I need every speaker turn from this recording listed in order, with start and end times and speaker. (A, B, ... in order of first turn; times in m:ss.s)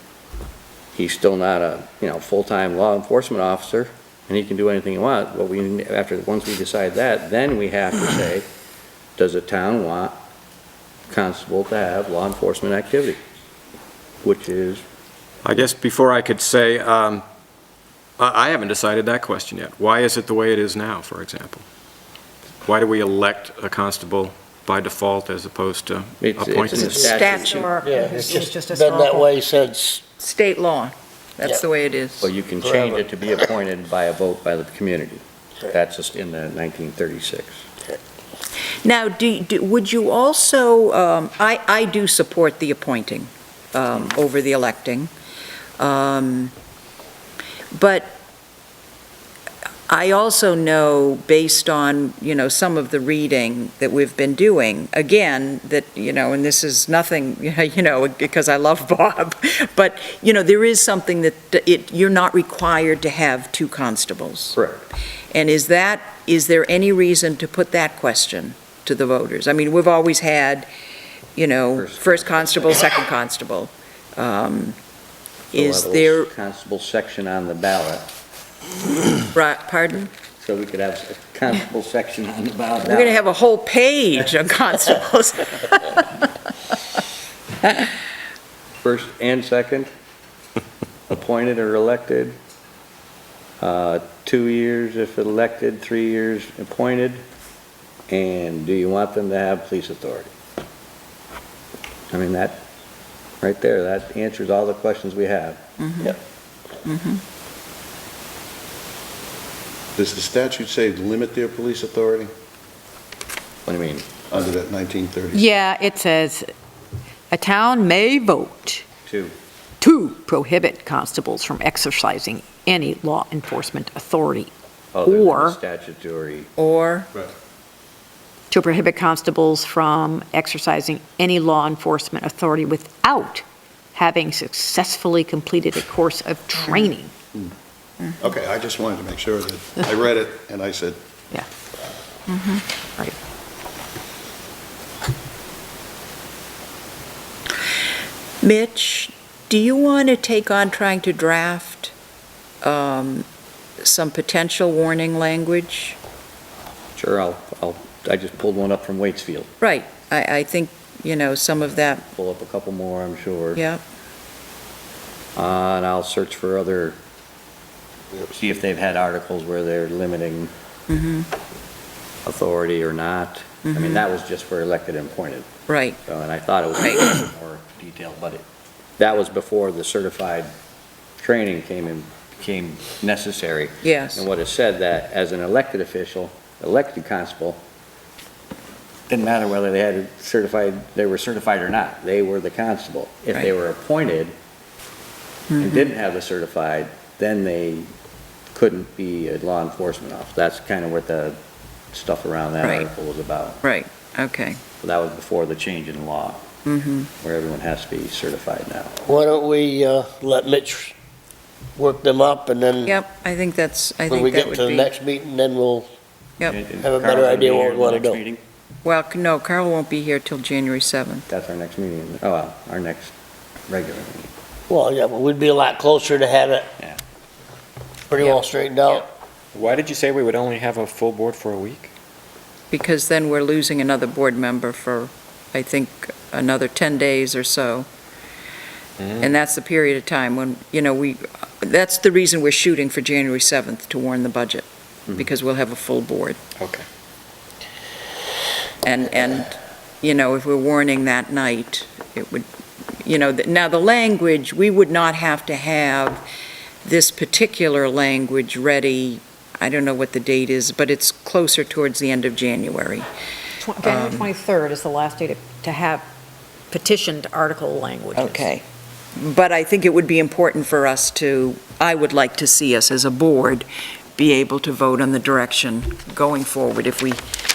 0:01.0-0:08.4 A
0:09.2-0:10.1 A
0:11.1-0:13.2 A
0:14.2-0:14.8 A
0:15.4-0:17.2 B
0:18.2-0:21.6 B
0:22.6-0:27.1 B
0:26.2-0:27.6 A
0:27.0-0:27.7 C
0:27.1-0:29.3 D
0:27.8-0:30.0 E
0:30.2-0:32.3 C
0:32.2-0:37.6 A
0:32.6-0:33.0 E
0:38.8-0:45.1 C
0:45.8-0:46.5 C
0:47.7-0:48.2 C
0:49.9-1:04.6 C
1:04.6-1:04.9 A
1:05.3-1:10.7 C
1:11.4-1:14.8 C
1:11.8-1:12.9 A
1:15.5-1:16.3 C
1:15.5-1:18.1 A
1:19.3-1:20.1 C
1:20.4-1:23.2 A
1:22.8-1:26.3 C
1:28.8-1:29.9 A
1:31.1-1:32.4 A
1:33.6-1:37.2 A
1:38.1-1:40.3 A
1:42.1-1:42.7 A
1:43.4-1:45.6 A
1:45.8-1:46.2 C
1:46.8-1:47.2 C
1:50.0-1:52.3 F
1:53.6-1:54.1 A
1:54.3-1:55.5 F
1:55.3-1:56.5 D
1:57.3-1:58.8 D
1:59.0-1:59.3 A
1:59.8-2:04.5 D
2:04.9-2:06.5 A
2:05.0-2:05.6 D
2:06.6-2:07.1 C
2:08.5-2:17.1 D
2:18.2-2:21.0 F
2:22.3-2:22.6 C
2:28.4-2:31.9 C
2:32.6-2:33.2 C
2:33.8-2:36.0 C
2:37.0-2:39.5 A
2:39.6-2:42.0 C
2:42.1-2:43.6 A
2:43.5-2:43.8 C
2:45.4-2:47.0 A
2:48.3-2:50.5 A
2:50.9-2:51.3 C
2:52.2-2:55.5 A
2:53.6-2:54.0 C
2:55.7-2:56.0 C
2:56.0-2:58.4 A
2:59.0-3:00.5 A
3:01.2-3:07.6 A
3:03.8-3:04.2 C
3:09.1-3:14.3 A
3:15.5-3:15.9 C
3:15.6-3:17.9 A
3:18.5-3:21.4 A
3:21.9-3:23.6 A
3:22.6-3:22.9 C
3:23.6-3:24.6 C
3:24.8-3:26.4 A
3:26.6-3:27.1 C
3:27.2-3:29.0 A
3:29.0-3:30.9 E
3:31.8-3:33.0 E
3:32.8-3:34.9 C
3:34.1-3:35.9 E
3:36.4-3:38.4 A
3:36.8-3:38.2 E
3:38.8-3:41.3 C
3:41.3-3:43.1 A
3:43.7-3:44.3 A
3:44.7-3:46.7 E
3:48.1-3:49.1 E
3:49.5-3:51.9 B
3:52.7-3:57.9 C
3:59.2-4:06.4 C
4:06.6-4:06.8 B
4:08.8-4:12.4 C
4:13.0-4:16.2 C
4:16.8-4:23.1 C
4:23.6-4:26.0 D
4:23.8-4:24.3 C
4:26.7-4:28.5 D
4:28.1-4:28.6 C
4:29.2-4:37.2 C